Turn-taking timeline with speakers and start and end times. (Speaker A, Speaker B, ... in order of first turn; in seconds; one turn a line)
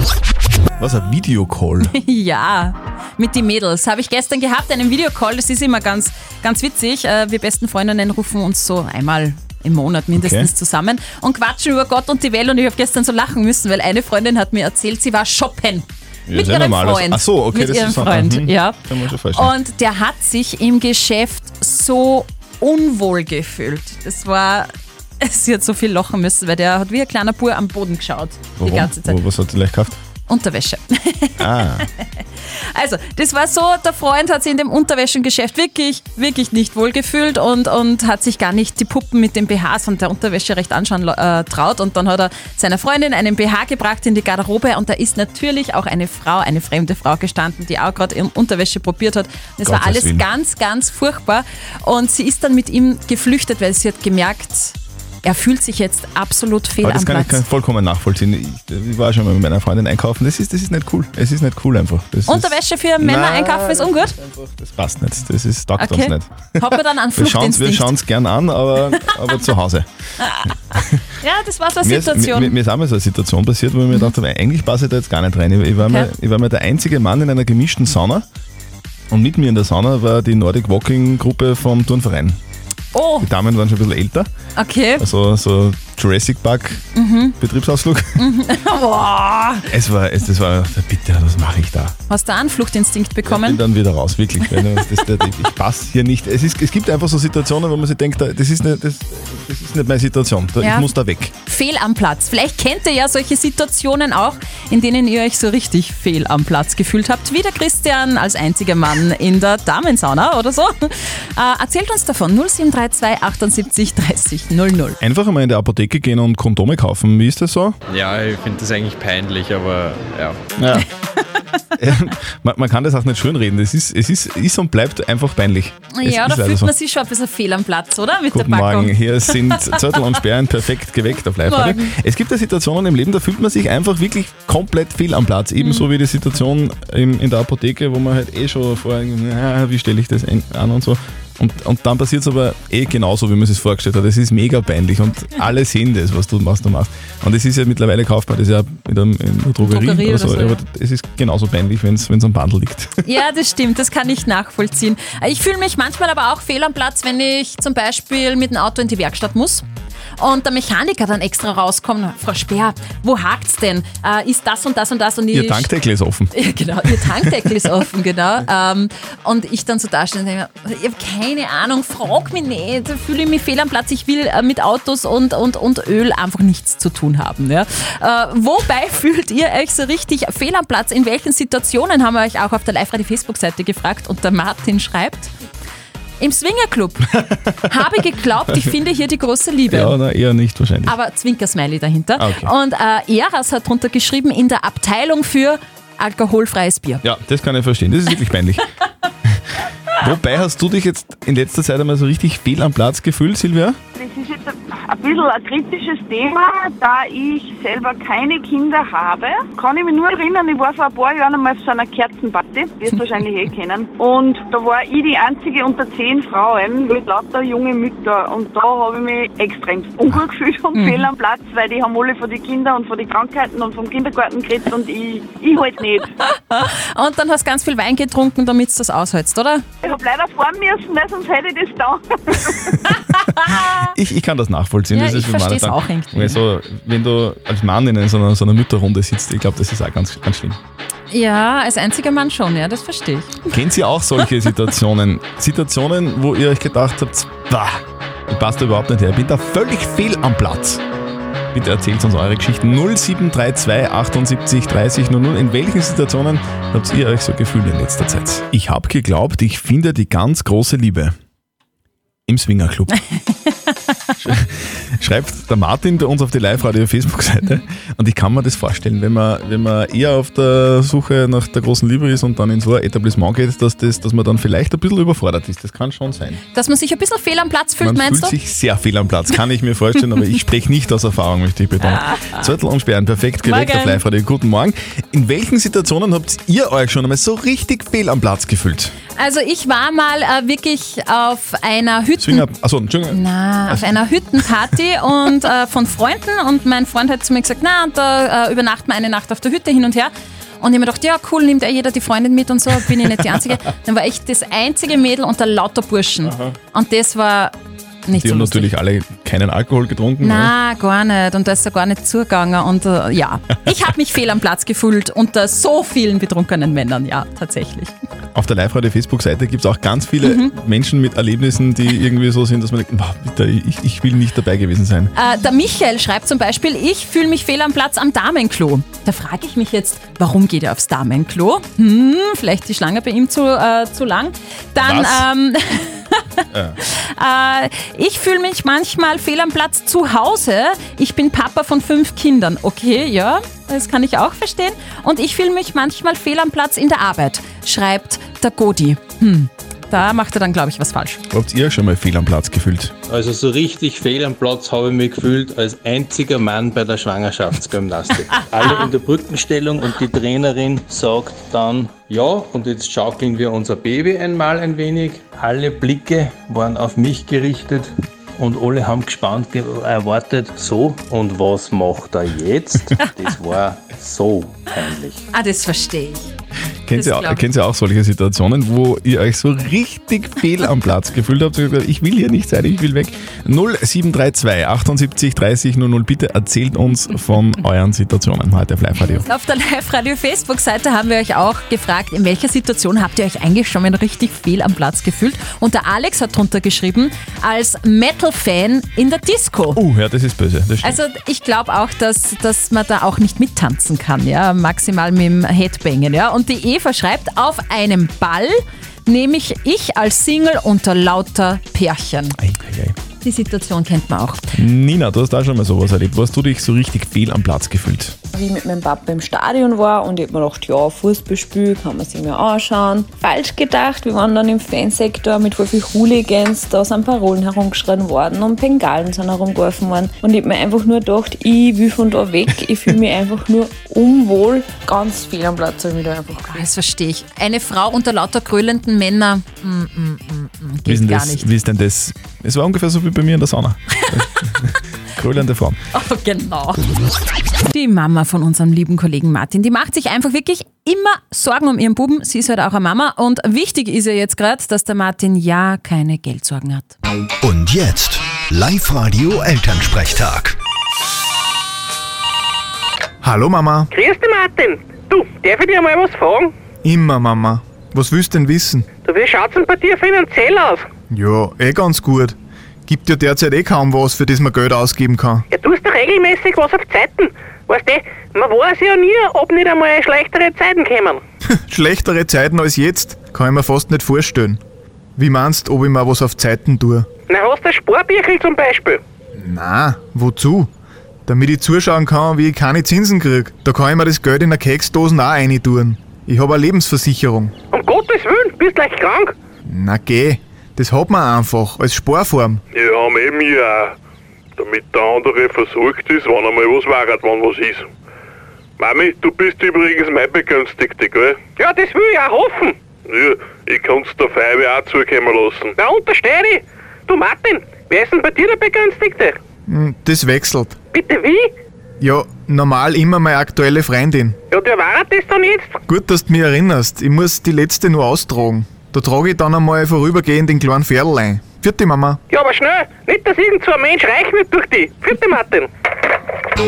Speaker A: 0.8-1.9
Speaker B: 1.9-18.8
Speaker A: 10.2-10.5
Speaker A: 16.3-19.5
Speaker B: 19.3-29.2
Speaker A: 28.6-30.0
Speaker B: 30.3-57.4
Speaker A: 31.4-31.9
Speaker A: 49.6-50.3
Speaker A: 56.8-69.9
Speaker B: 62.3-64.2
Speaker B: 65.8-67.9
Speaker B: 70.2-72.5
Speaker A: 70.5-71.0
Speaker A: 71.8-78.3
Speaker B: 75.8-76.1
Speaker A: 79.1-82.4
Speaker B: 82.9-83.3
Speaker A: 83.2-84.3
Speaker B: 84.6-85.1
Speaker A: 85.0-86.9
Speaker B: 87.0-87.3
Speaker A: 87.4-88.2
Speaker B: 88.2-89.7
Speaker A: 89.7-92.0
Speaker B: 92.1-93.6
Speaker A: 93.2-101.3
Speaker B: 100.6-100.9
Speaker B: 101.5-115.0
Speaker A: 115.0-117.8
Speaker C: 117.9-120.4
Speaker A: 120.6-120.9
Speaker A: 121.8-126.7
Speaker B: 125.9-130.0
Speaker A: 128.3-153.1
Speaker B: 131.5-131.9
Speaker B: 135.6-135.9
Speaker B: 149.6-150.6
Speaker B: 153.0-159.6
Speaker B: 160.2-165.7
Speaker A: 165.3-166.3
Speaker B: 166.3-185.3
Speaker A: 166.9-167.5
Speaker B: 186.2-187.1
Speaker A: 187.2-187.8
Speaker B: 187.7-190.0
Speaker A: 189.7-190.9
Speaker B: 190.9-197.0
Speaker A: 192.2-192.5
Speaker A: 197.0-198.6
Speaker A: 200.0-203.8
Speaker D: 203.9-226.1
Speaker B: 220.8-221.0
Speaker B: 226.3-229.7
Speaker D: 229.8-232.8
Speaker B: 233.0-233.9
Speaker A: 233.8-240.6
Speaker B: 234.9-236.4
Speaker B: 241.1-243.5
Speaker A: 243.5-250.8
Speaker A: 251.5-261.2
Speaker A: 262.3-262.9
Speaker B: 263.5-263.7
Speaker A: 264.2-276.4
Speaker B: 276.5-278.4
Speaker A: 277.8-288.9
Speaker B: 281.9-282.4
Speaker B: 283.4-284.0
Speaker B: 289.2-292.5
Speaker A: 292.2-294.0
Speaker B: 293.1-307.5
Speaker A: 306.2-306.6
Speaker B: 308.1-308.7
Speaker A: 308.1-310.5
Speaker B: 310.2-317.9
Speaker A: 318.3-325.1
Speaker B: 320.2-320.5
Speaker B: 325.1-351.2
Speaker A: 334.8-335.3
Speaker A: 336.5-336.8
Speaker A: 351.3-352.9
Speaker E: 353.1-375.3
Speaker B: 375.3-376.3
Speaker A: 376.9-389.3
Speaker B: 376.9-377.4
Speaker B: 389.1-399.8
Speaker A: 399.7-401.0
Speaker B: 400.8-412.4
Speaker A: 412.4-413.0
Speaker B: 413.2-414.5
Speaker A: 414.5-418.2
Speaker F: 418.3-436.7
Speaker B: 436.4-441.5
Speaker A: 440.9-445.8
Speaker B: 445.9-446.8
Speaker B: 447.7-457.0
Speaker G: 457.4-460.6
Speaker H: 463.2-463.9
Speaker I: 463.9-466.5
Speaker H: 466.8-468.9
Speaker I: 469.1-470.9
Speaker H: 471.1-472.4
Speaker H: 472.9-475.4
Speaker I: 475.5-481.2
Speaker H: 481.6-484.6
Speaker H: 485.2-487.1
Speaker I: 487.3-489.0
Speaker H: 489.3-490.7
Speaker H: 491.3-497.5
Speaker I: 497.7-499.4
Speaker H: 499.6-502.6
Speaker J: 502.7-504.0
Speaker J: 504.6-507.9
Speaker J: 508.8-511.5
Speaker I: 511.6-512.8
Speaker J: 513.0-515.8
Speaker I: 515.8-519.4
Speaker H: 519.7-520.8
Speaker I: 520.9-521.5
Speaker H: 522.0-524.4
Speaker I: 524.5-525.8
Speaker H: 525.9-532.2
Speaker I: 532.3-535.7